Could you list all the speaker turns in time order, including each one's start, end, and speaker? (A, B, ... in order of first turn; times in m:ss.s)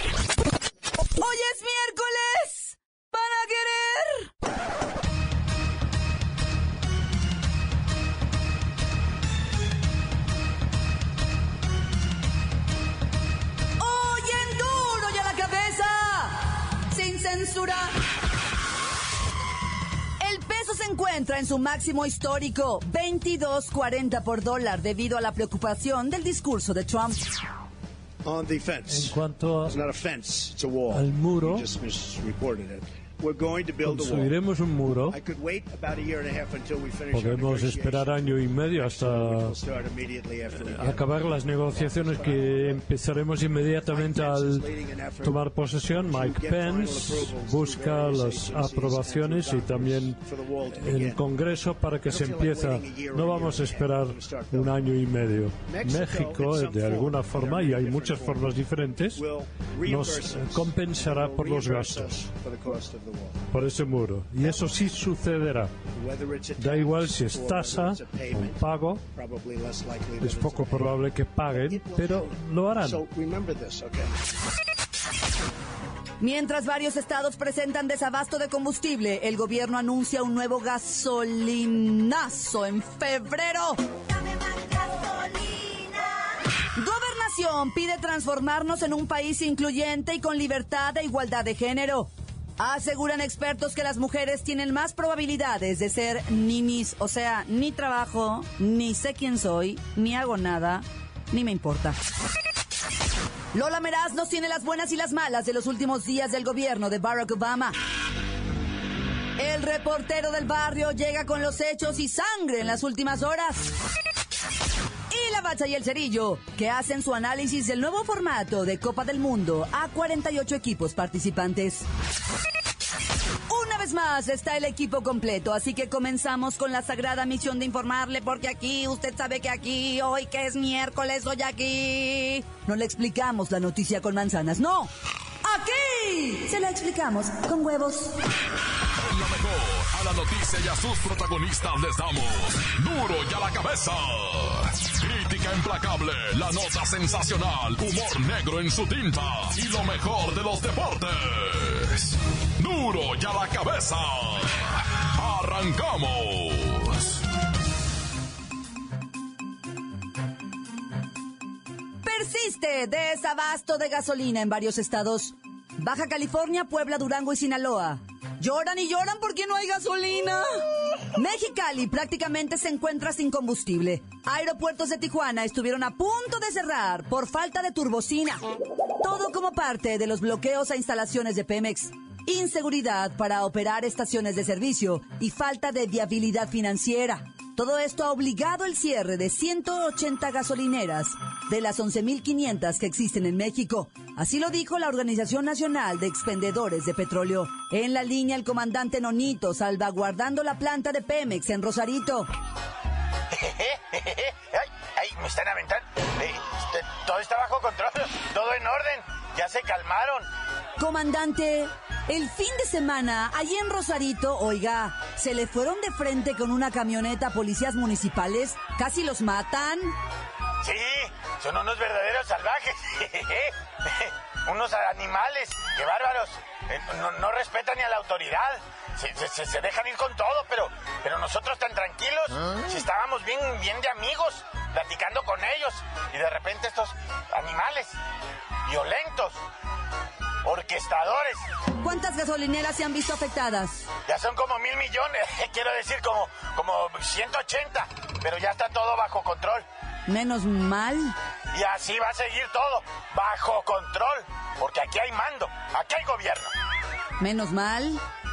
0:01.2-0:04.3 A
0:13.8-0:17.9 A
0:20.2-0:27.2 A
0:28.2-0:34.4 B
0:28.9-0:29.8 C
0:30.9-0:31.7 C
0:33.8-0:35.2 C
0:35.1-0:42.8 B
0:37.1-0:39.6 C
0:40.6-0:44.7 C
0:43.5-0:51.2 B
0:45.2-0:59.2 C
0:52.0-0:54.9 B
0:55.6-0:58.6 B
0:59.1-1:03.6 B
0:59.8-1:02.1 C
1:03.5-1:05.7 C
1:04.4-1:04.8 B
1:06.0-1:14.1 B
1:06.6-1:09.0 C
1:10.2-1:13.0 C
1:16.2-1:26.2 A
1:26.8-1:42.0 A
1:43.5-1:47.7 A
1:49.4-1:53.7 A
1:55.1-2:01.8 A
2:03.5-2:14.9 A
2:15.4-2:18.1 A
2:19.0-2:37.2 D
2:42.0-2:50.6 A
2:51.2-2:58.4 A
2:59.0-3:22.3 A
3:23.3-3:30.3 E
3:30.8-3:39.9 A
3:40.6-3:57.9 E
3:58.7-3:59.4 E
4:00.4-4:01.4 E
4:01.8-4:03.9 A
4:04.1-4:09.6 E
4:10.1-4:11.1 A
4:11.5-4:16.5 E
4:17.2-4:18.0 A